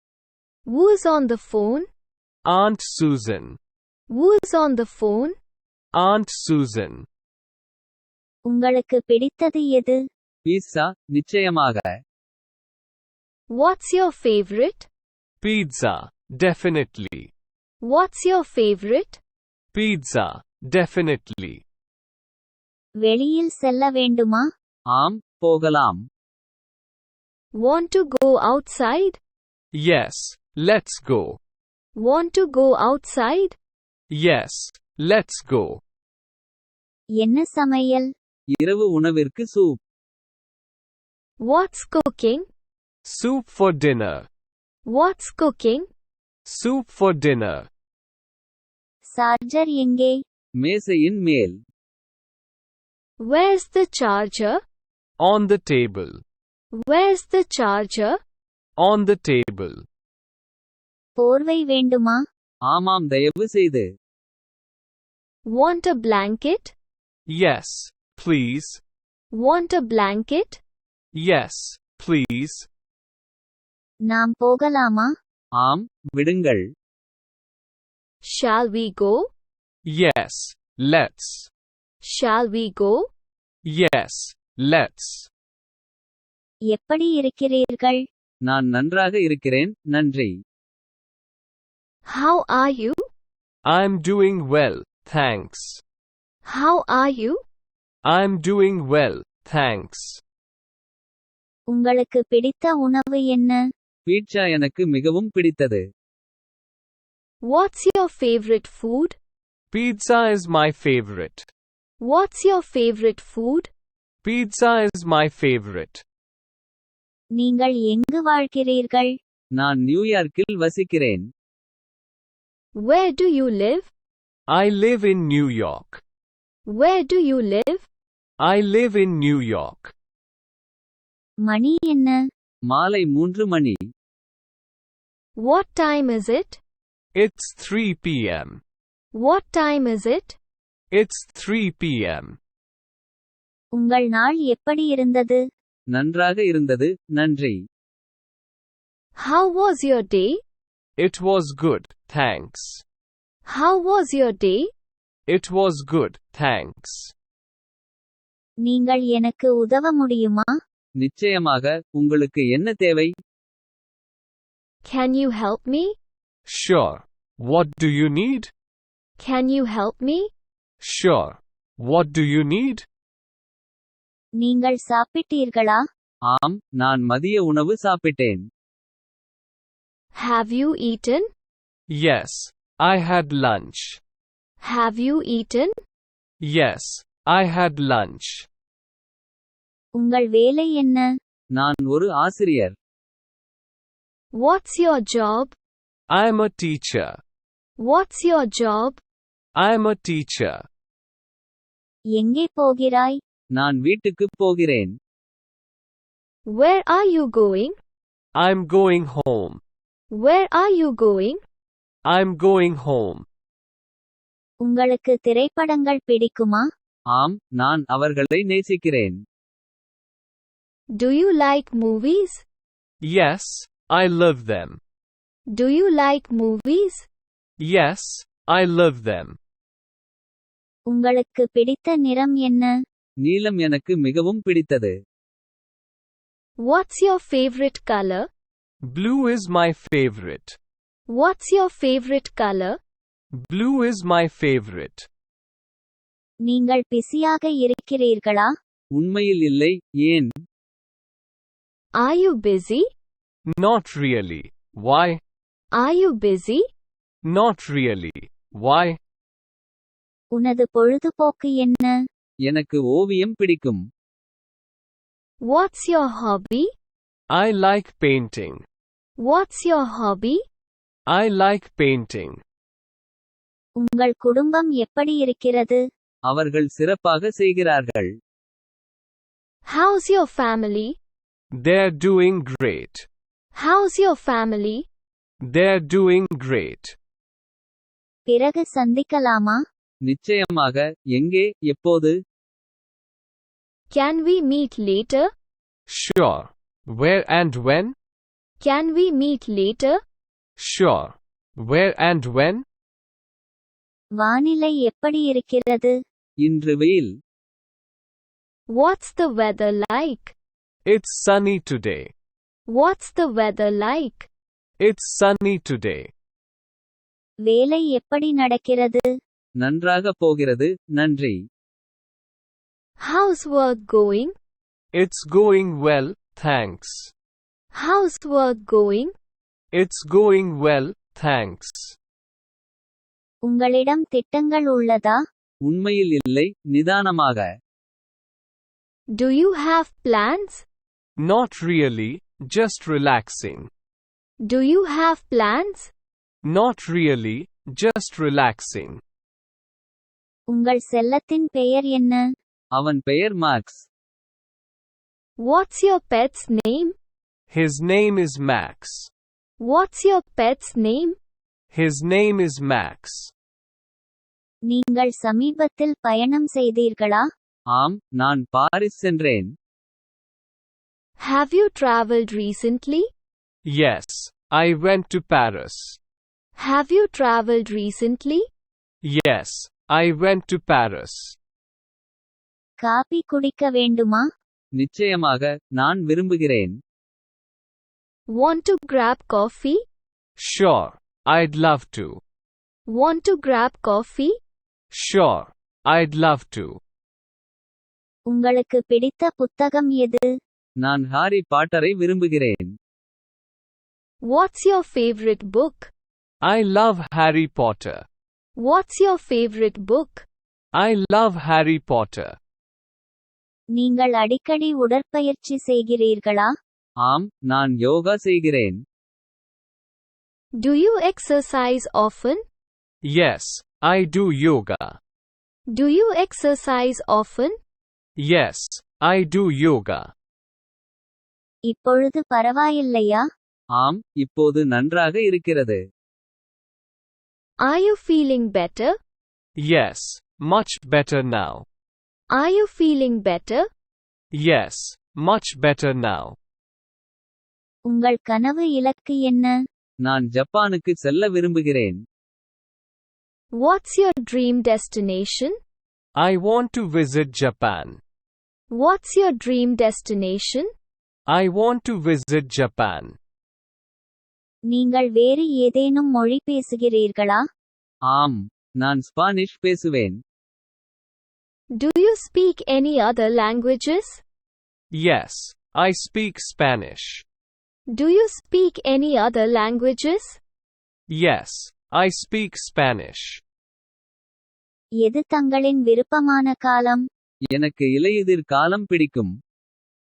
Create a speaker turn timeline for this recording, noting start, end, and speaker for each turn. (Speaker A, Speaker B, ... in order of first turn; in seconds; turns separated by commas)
Speaker A: 0.7-1.9, Speaker B: 2.5-3.6, Speaker A: 4.1-5.3, Speaker B: 5.9-7.0, Speaker C: 8.5-10.0, Speaker D: 10.4-11.9, Speaker A: 13.5-14.9, Speaker B: 15.4-17.3, Speaker A: 17.8-19.2, Speaker B: 19.7-21.6, Speaker C: 23.0-24.5, Speaker D: 24.9-26.0, Speaker A: 27.5-29.2, Speaker B: 29.7-31.4, Speaker A: 31.9-33.5, Speaker B: 34.1-35.8, Speaker C: 37.2-38.1, Speaker D: 38.5-39.8, Speaker A: 41.4-42.5, Speaker B: 43.0-44.3, Speaker A: 44.9-45.9, Speaker B: 46.5-47.7, Speaker C: 49.1-50.2, Speaker D: 50.6-51.6, Speaker A: 53.2-54.6, Speaker B: 55.2-56.2, Speaker A: 56.7-58.2, Speaker B: 58.8-59.8, Speaker C: 61.2-62.2, Speaker D: 62.6-63.9, Speaker A: 65.4-66.7, Speaker B: 67.3-68.8, Speaker A: 69.3-70.6, Speaker B: 71.1-72.7, Speaker C: 74.1-75.1, Speaker D: 75.6-76.7, Speaker A: 78.2-79.3, Speaker B: 79.8-81.5, Speaker A: 82.0-83.1, Speaker B: 83.6-85.3, Speaker C: 86.7-88.0, Speaker D: 88.5-90.3, Speaker A: 92.0-93.0, Speaker B: 93.7-95.8, Speaker A: 96.4-97.4, Speaker B: 98.0-100.2, Speaker C: 101.7-103.6, Speaker D: 104.1-105.8, Speaker A: 107.4-109.2, Speaker B: 109.7-111.5, Speaker A: 112.0-113.7, Speaker B: 114.2-116.0, Speaker C: 117.3-119.1, Speaker D: 119.5-121.3, Speaker A: 122.7-123.9, Speaker B: 124.5-126.0, Speaker A: 126.7-127.8, Speaker B: 128.4-129.9, Speaker C: 131.4-132.2, Speaker D: 132.7-133.8, Speaker A: 135.4-136.6, Speaker B: 137.1-138.6, Speaker A: 139.1-140.4, Speaker B: 140.9-142.4, Speaker C: 143.8-145.4, Speaker D: 145.9-147.6, Speaker A: 149.2-150.4, Speaker B: 151.0-152.8, Speaker A: 153.4-154.7, Speaker B: 155.3-157.1, Speaker C: 158.6-160.5, Speaker D: 161.0-163.1, Speaker A: 164.8-165.9, Speaker B: 166.4-168.5, Speaker A: 169.2-170.3, Speaker B: 170.8-172.8, Speaker C: 174.4-175.8, Speaker D: 176.2-178.5, Speaker A: 180.1-181.3, Speaker B: 181.9-184.0, Speaker A: 184.6-185.8, Speaker B: 186.4-188.5, Speaker C: 190.0-191.1, Speaker D: 191.5-192.7, Speaker A: 194.3-195.5, Speaker B: 196.1-197.2, Speaker A: 197.8-199.0, Speaker B: 199.6-200.6, Speaker C: 202.1-203.2, Speaker D: 203.6-204.9, Speaker A: 206.4-207.8, Speaker B: 208.3-209.6, Speaker A: 210.1-211.4, Speaker B: 212.1-213.2, Speaker C: 214.6-216.7, Speaker D: 217.1-219.2, Speaker A: 220.9-222.4, Speaker B: 223.0-224.8, Speaker A: 225.5-227.1, Speaker B: 227.6-229.4, Speaker C: 230.9-232.7, Speaker D: 233.2-234.9, Speaker A: 236.6-238.3, Speaker B: 238.8-240.6, Speaker A: 241.1-242.8, Speaker B: 243.3-245.1, Speaker C: 246.5-248.5, Speaker D: 248.9-250.3, Speaker A: 251.9-252.9, Speaker B: 253.5-255.2, Speaker A: 255.7-256.6, Speaker B: 257.2-259.0, Speaker C: 260.3-261.9, Speaker D: 262.5-263.8, Speaker A: 265.4-266.7, Speaker B: 267.3-268.6, Speaker A: 269.2-270.4, Speaker B: 271.1-272.4, Speaker C: 273.8-275.8, Speaker D: 276.3-278.1, Speaker A: 279.6-280.9, Speaker B: 281.5-283.1, Speaker A: 283.5-284.8, Speaker B: 285.4-286.9, Speaker C: 288.3-289.6, Speaker D: 290.0-292.1, Speaker A: 293.9-295.3, Speaker B: 295.9-297.9, Speaker A: 298.6-300.0, Speaker B: 300.6-302.6, Speaker C: 304.2-306.0, Speaker D: 306.4-307.1, Speaker A: 308.7-310.3, Speaker B: 310.9-312.1, Speaker A: 312.7-314.3, Speaker B: 314.8-316.1, Speaker C: 317.4-319.1, Speaker D: 319.6-321.4, Speaker A: 323.0-324.3, Speaker B: 324.9-327.1, Speaker A: 327.7-329.1, Speaker B: 329.7-331.9, Speaker C: 333.4-335.2, Speaker D: 335.6-337.5, Speaker A: 339.1-340.6, Speaker B: 341.2-343.7, Speaker A: 344.4-345.9, Speaker B: 346.4-349.0, Speaker C: 350.5-352.3, Speaker D: 352.7-353.9, Speaker A: 355.4-356.9, Speaker B: 357.5-359.1, Speaker A: 359.6-361.2, Speaker B: 361.7-363.3, Speaker C: 364.7-367.3, Speaker D: 367.7-369.5, Speaker A: 371.2-373.1, Speaker B: 373.6-376.0, Speaker A: 376.6-378.5, Speaker B: 379.0-381.4, Speaker C: 382.8-384.3, Speaker D: 384.8-386.8, Speaker A: 388.3-389.8, Speaker B: 390.4-392.2, Speaker A: 392.9-394.4, Speaker B: 394.9-396.8, Speaker C: 398.3-400.3, Speaker D: 400.8-402.7, Speaker A: 404.2-405.9, Speaker B: 406.4-408.1, Speaker A: 408.6-410.2, Speaker B: 410.7-412.4, Speaker C: 413.7-416.5, Speaker D: 417.0-418.8, Speaker A: 420.6-422.4, Speaker B: 423.0-425.0, Speaker A: 425.7-427.6, Speaker B: 428.2-430.1, Speaker C: 431.7-433.2, Speaker D: 433.7-435.8, Speaker A: 437.6-438.9, Speaker B: 439.6-441.6, Speaker A: 442.3-443.7, Speaker B: 444.3-446.4, Speaker C: 447.9-449.5, Speaker D: 450.0-452.0, Speaker A: 453.5-455.6, Speaker B: 456.1-458.0, Speaker A: 458.7-460.7, Speaker B: 461.3-463.2, Speaker C: 464.7-467.4, Speaker D: 468.1-470.2, Speaker A: 471.7-474.2, Speaker B: 474.9-477.2, Speaker A: 477.9-480.4, Speaker B: 481.1-483.4, Speaker C: 485.0-487.0, Speaker D: 487.5-489.3